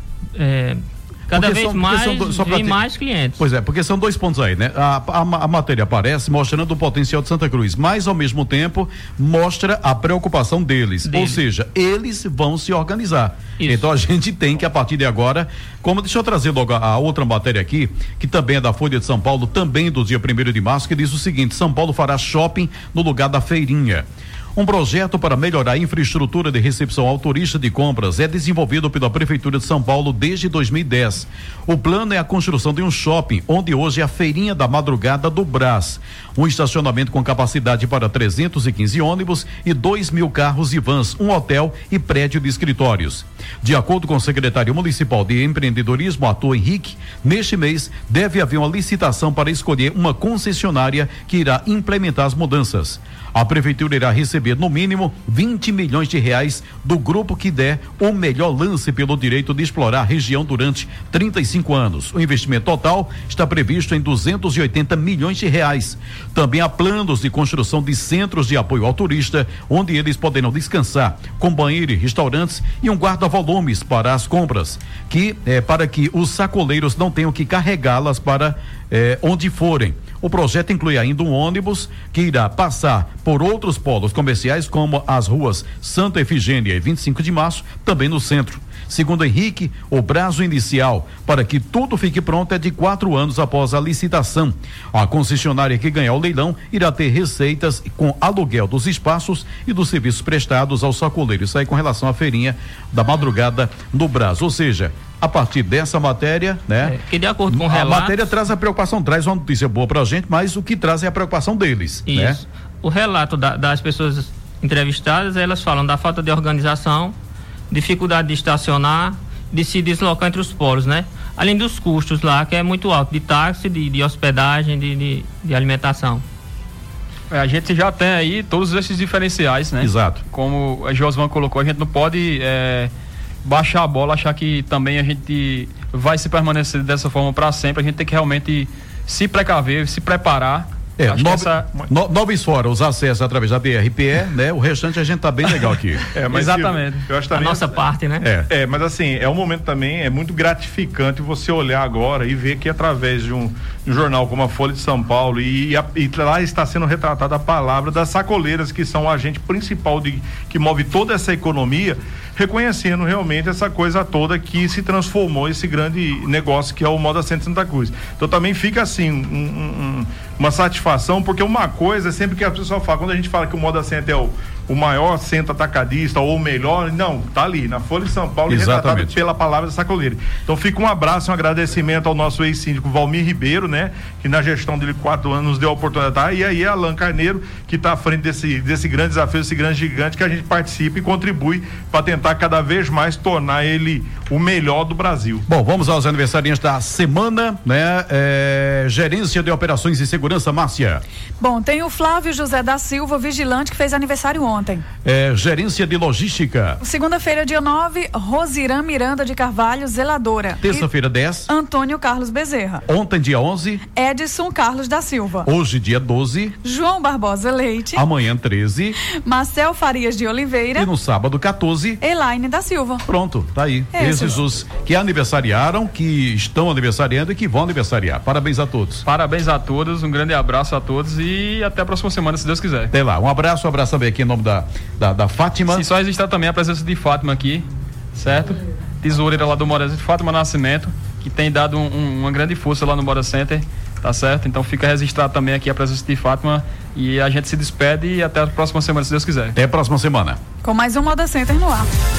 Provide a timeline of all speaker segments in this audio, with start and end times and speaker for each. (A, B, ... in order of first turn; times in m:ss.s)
0:00.3-0:03.4 A
0:01.3-0:02.8 B
0:03.4-1:52.4 B
0:11.1-0:11.4 A
0:13.6-0:13.8 A
1:46.8-1:48.3 A
1:52.1-1:57.1 A
1:57.7-2:06.2 A
2:07.3-2:12.9 C
2:09.8-2:10.2 B
2:13.4-2:21.7 C
2:21.0-2:26.0 B
2:26.1-2:27.8 D
2:26.3-2:27.0 C
2:27.3-2:28.3 A
2:28.2-2:28.5 B
2:28.5-3:15.4 D
2:58.5-2:59.1 B
3:15.5-3:21.0 B
3:21.4-3:24.8 E
3:25.0-3:26.8 B
3:26.8-3:30.9 E
3:30.6-3:31.5 B
3:31.5-3:32.8 E
3:32.9-3:33.8 B
3:33.9-3:35.5 E
3:35.4-3:36.6 B
3:36.6-3:38.1 E
3:37.9-3:39.0 B
3:39.0-3:40.9 E
3:40.7-3:42.0 B
3:42.0-3:43.0 E
3:43.0-3:49.0 B
3:43.9-3:44.4 E
3:49.0-3:52.9 C
3:52.9-3:55.8 B
3:55.7-4:09.6 C
4:09.5-4:10.4 B
4:10.6-4:11.9 E